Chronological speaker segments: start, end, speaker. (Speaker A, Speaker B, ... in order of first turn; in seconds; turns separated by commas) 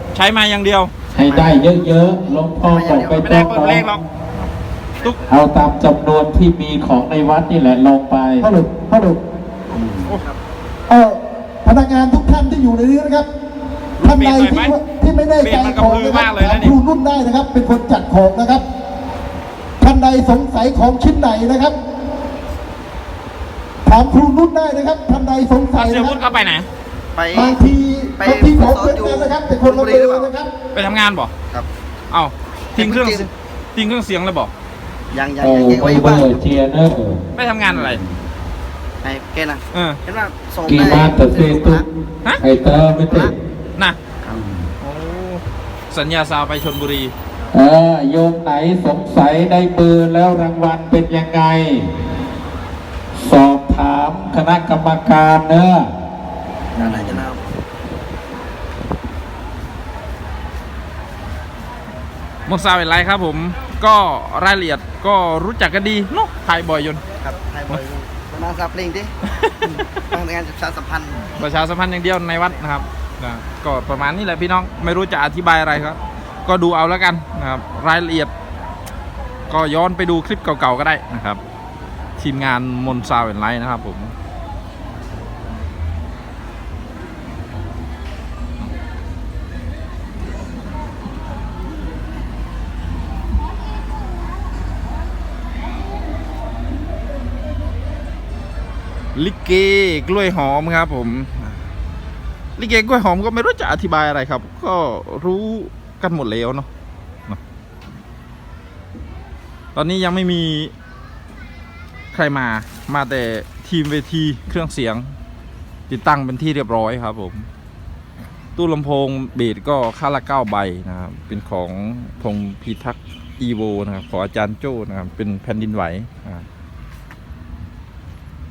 Speaker A: 0.1-0.9, Speaker B: 1.1-1.6, Speaker C: 1.1-3.8, Speaker B: 2.6-3.3, Speaker A: 3.1-4.0, Speaker C: 5.3-8.5, Speaker D: 8.4-9.2, Speaker B: 9.9-10.4, Speaker D: 10.9-13.3, Speaker A: 14.0-14.8, Speaker D: 14.0-18.6, Speaker A: 15.4-16.8, Speaker D: 19.8-21.8, Speaker D: 23.8-26.2, Speaker A: 25.7-26.7, Speaker B: 27.1-27.6, Speaker D: 27.3-30.5, Speaker B: 28.2-30.3, Speaker A: 30.7-31.3, Speaker A: 32.1-34.5, Speaker B: 32.8-33.3, Speaker B: 35.1-36.3, Speaker C: 35.4-37.2, Speaker A: 37.3-38.0, Speaker B: 37.7-38.1, Speaker B: 39.0-41.8, Speaker A: 39.7-40.0, Speaker C: 40.6-41.8, Speaker C: 42.4-43.3, Speaker B: 43.0-43.3, Speaker B: 44.2-44.7, Speaker A: 44.8-47.1, Speaker C: 47.5-51.9, Speaker C: 53.1-55.9, Speaker B: 56.8-57.4, Speaker C: 56.8-57.2, Speaker A: 62.5-67.0, Speaker B: 67.2-69.1, Speaker A: 69.4-69.8, Speaker B: 69.7-71.2, Speaker A: 71.3-78.3, Speaker A: 79.5-81.4, Speaker A: 82.2-84.1, Speaker A: 99.1-101.5, Speaker A: 102.6-106.7, Speaker A: 109.7-110.7, Speaker A: 112.1-115.1, Speaker A: 115.9-117.5, Speaker A: 118.5-126.4